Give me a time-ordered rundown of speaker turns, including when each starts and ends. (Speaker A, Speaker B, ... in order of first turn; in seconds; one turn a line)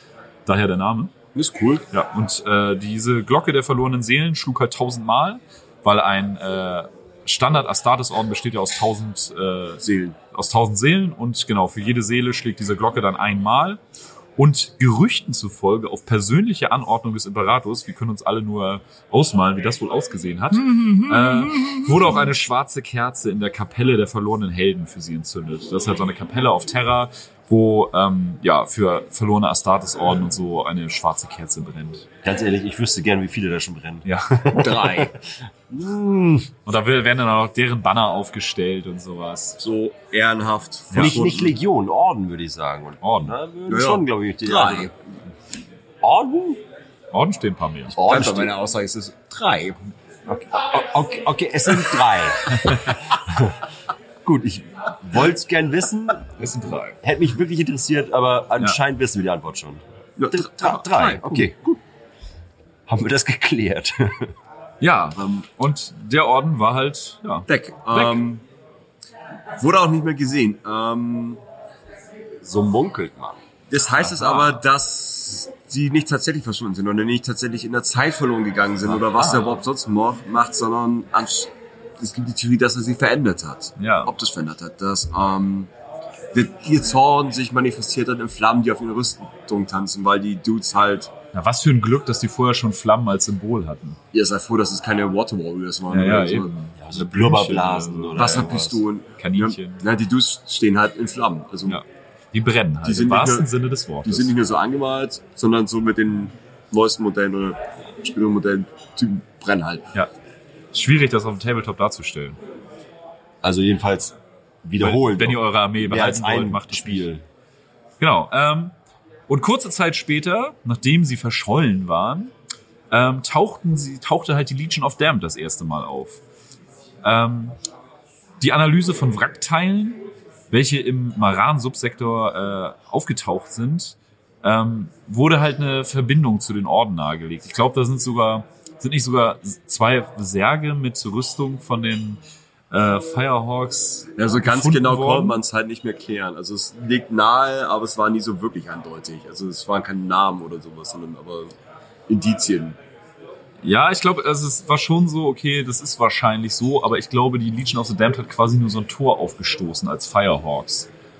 Speaker A: 0.5-1.1
Speaker B: 1.3-1.9
Speaker A: 1.9-13.8
Speaker B: 9.8-10.2
Speaker A: 14.4-32.1
Speaker C: 32.2-35.1
Speaker A: 34.0-34.6
Speaker B: 34.5-35.1
Speaker C: 35.7-36.5
Speaker A: 36.6-39.6
Speaker B: 39.6-41.6
Speaker C: 40.9-44.9
Speaker A: 43.0-43.4
Speaker B: 43.7-44.9
Speaker C: 46.0-46.6
Speaker A: 47.1-48.0
Speaker B: 47.9-49.9
Speaker C: 48.0-48.5
Speaker C: 50.2-53.6
Speaker C: 54.2-56.3
Speaker A: 56.4-57.0
Speaker C: 57.0-61.8
Speaker B: 60.2-61.5
Speaker C: 62.9-64.3
Speaker A: 64.8-68.2
Speaker B: 65.2-65.4
Speaker B: 67.5-68.4
Speaker B: 69.6-71.4
Speaker C: 72.4-73.4
Speaker B: 73.7-85.7
Speaker A: 74.0-74.6
Speaker A: 78.9-79.6
Speaker A: 83.8-84.1
Speaker B: 86.3-91.1
Speaker A: 91.3-94.0
Speaker B: 94.1-96.5
Speaker A: 95.9-98.6
Speaker C: 96.8-98.8
Speaker B: 98.1-101.8
Speaker A: 99.2-99.8
Speaker A: 101.7-104.3
Speaker B: 102.8-103.5
Speaker B: 104.0-109.9
Speaker A: 110.7-112.4
Speaker C: 113.4-117.2
Speaker A: 114.8-117.1
Speaker A: 118.0-118.7
Speaker A: 119.3-122.3
Speaker A: 122.9-126.2
Speaker A: 127.0-127.6
Speaker A: 128.4-145.4
Speaker B: 144.2-151.5
Speaker B: 152.1-152.8
Speaker A: 153.6-160.9